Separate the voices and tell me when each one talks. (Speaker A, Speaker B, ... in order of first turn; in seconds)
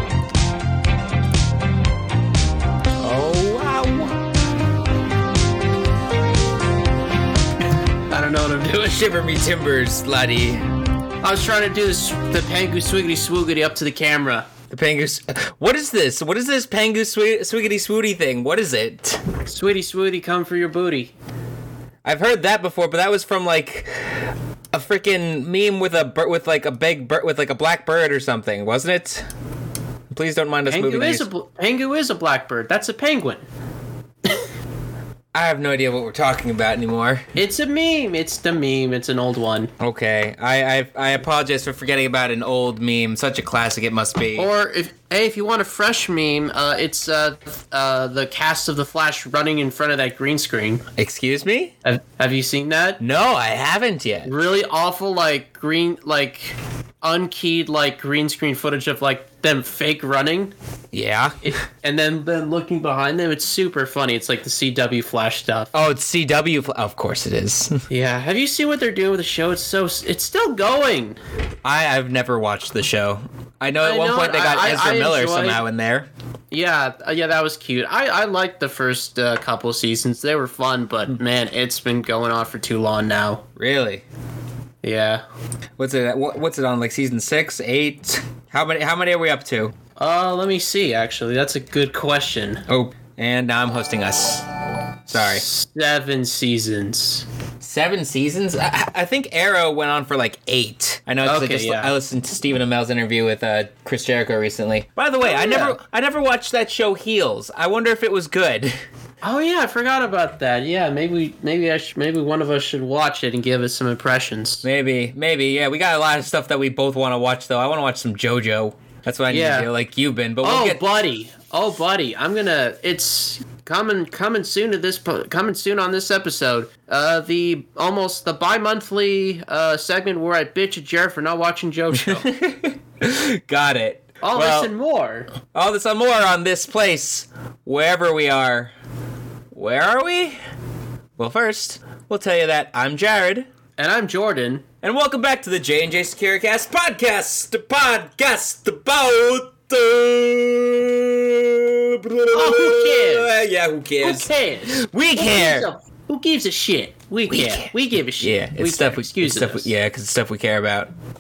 Speaker A: 3.0-4.1, 8.9-10.6, 14.7-19.2, 22.0-24.2, 24.7-29.3, 30.1-31.3, 35.3-37.3, 39.8-44.5, 51.0-51.7, 53.0-54.3, 60.9-61.4, 65.7-67.8, 71.6-76.1, 83.6-84.0, 85.8-89.8, 92.7-94.5, 95.1-95.4, 97.6-108.8, 114.6-120.8, 131.9-134.7, 135.5-138.7, 139.5-140.4, 141.2-143.5, 144.8-155.7, 157.3-160.9
Speaker B: 8.1-9.0, 11.2-14.5, 19.5-21.1, 30.7-33.5, 37.4-39.7, 44.4-50.8, 51.8-53.0, 54.2-60.5, 61.4-65.7, 67.9-71.2, 73.8-75.6, 76.5-83.4, 84.8-85.2, 90.0-92.7, 95.1-97.2, 101.2-101.9, 105.2-105.8, 109.2-114.7, 119.3-119.7, 120.4-132.3, 134.2-135.3, 143.8-144.6, 152.3-153.4, 154.0-159.7